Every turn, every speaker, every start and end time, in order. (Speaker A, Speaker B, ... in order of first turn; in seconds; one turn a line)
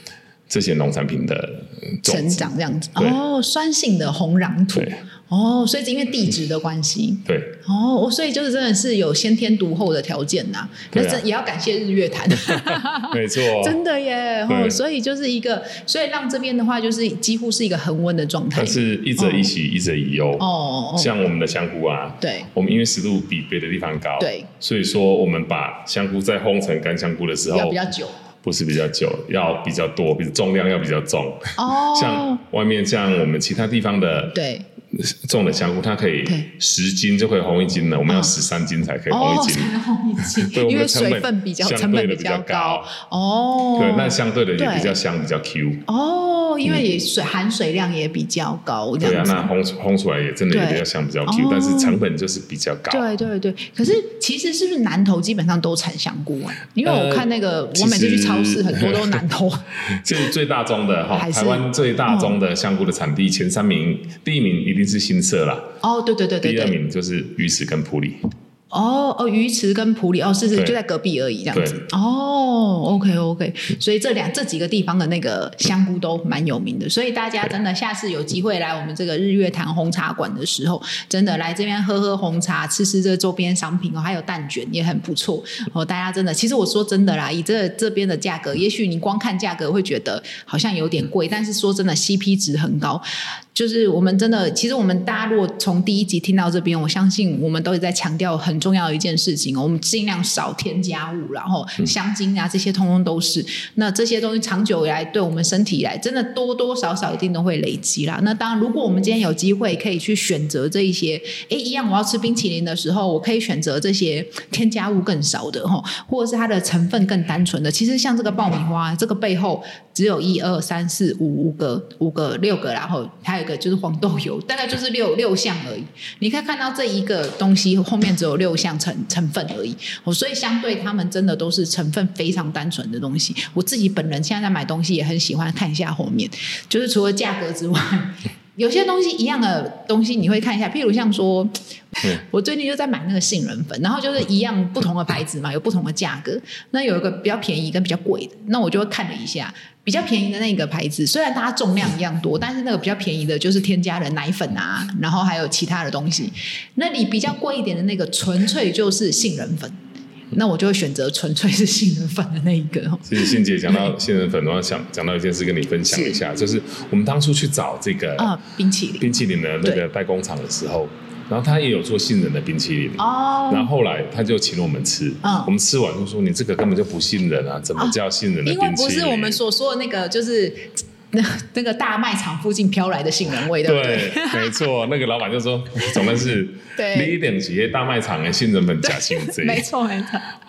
Speaker A: 0.5-3.2
Speaker B: 2.0-19.5
Speaker A: 4.7-5.0
Speaker A: 7.2-7.6
Speaker A: 10.9-11.2
Speaker A: 12.3-13.8
Speaker A: 14.5-14.8
Speaker A: 18.6-27.8
Speaker B: 20.4-21.1
Speaker B: 22.2-22.5
Speaker B: 24.2-24.5
Speaker B: 27.5-28.2
Speaker A: 28.4-34.4
Speaker B: 31.6-32.4
Speaker B: 34.3-34.7
Speaker A: 34.9-39.7
Speaker B: 38.1-38.3
Speaker B: 39.1-45.0
Speaker A: 40.4-42.9
Speaker A: 43.8-45.9
Speaker B: 45.9-49.5
Speaker A: 46.7-46.9
Speaker A: 49.0-53.1
Speaker B: 50.5-52.0
Speaker B: 52.9-59.7
Speaker A: 56.8-59.2
Speaker A: 59.8-65.7
Speaker B: 61.1-62.4
Speaker B: 65.8-66.8
Speaker A: 66.4-68.2
Speaker B: 68.7-93.0
Speaker A: 71.5-71.8
Speaker B: 93.5-159.8
Speaker B: 160.3-163.9
Speaker A: 163.1-168.3
Speaker B: 165.9-166.2
Speaker B: 168.2-169.8
Speaker A: 169.0-179.4
Speaker B: 173.0-173.7
Speaker B: 175.2-175.5
Speaker B: 177.8-184.6
Speaker A: 183.6-189.7
Speaker B: 185.8-186.2
Speaker B: 186.8-187.2
Speaker B: 188.8-190.3